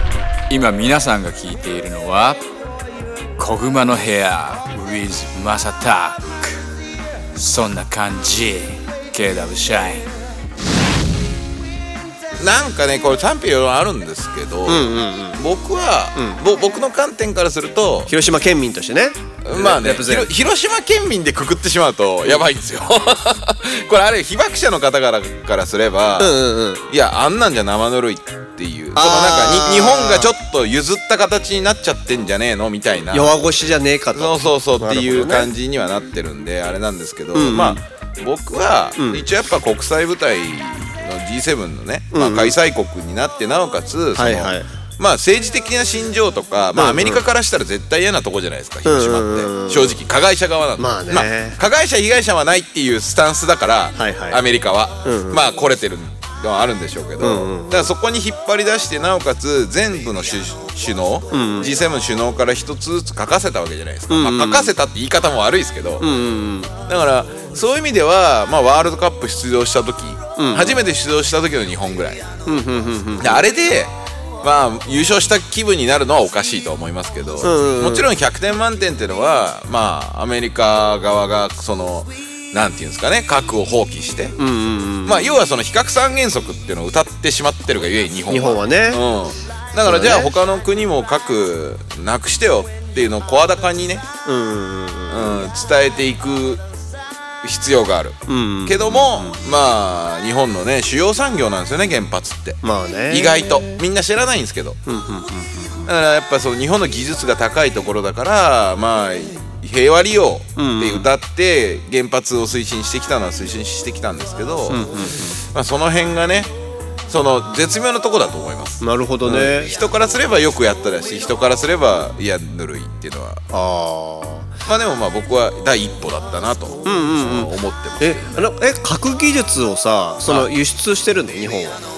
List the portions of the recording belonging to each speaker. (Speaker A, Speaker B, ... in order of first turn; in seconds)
Speaker A: 0.5-2.4, 3.4-6.6, 7.3-10.1
Speaker B: 12.4-18.1, 19.4-26.4, 26.9-33.4, 34.1-66.1, 66.9-72.3, 73.2-84.4, 85.0-94.1, 95.1-96.6, 97.4-102.6, 103.1-104.8, 105.9-116.5, 117.1-123.4, 124.7-128.4
Speaker C: 14.7-15.4, 18.1-20.3, 26.2-26.9, 28.9-30.3, 33.1-35.5, 37.3-37.8, 39.0-39.2, 42.1-42.5, 44.2-44.7, 46.8-47.2, 48.9-50.0, 50.8-51.6, 54.0-54.4, 55.0-55.4, 57.2-57.9, 61.3-61.7, 64.1-64.7, 66.0-66.7, 70.4-70.8, 72.5-73.4, 77.4-78.1, 84.4-85.4, 88.3-89.0, 89.9-90.3, 94.2-95.4, 98.3-99.4, 102.6-103.7, 104.9-105.9, 110.6-111.1, 114.7-115.4, 118.8-119.7, 123.5-124.5, 126.8-131.8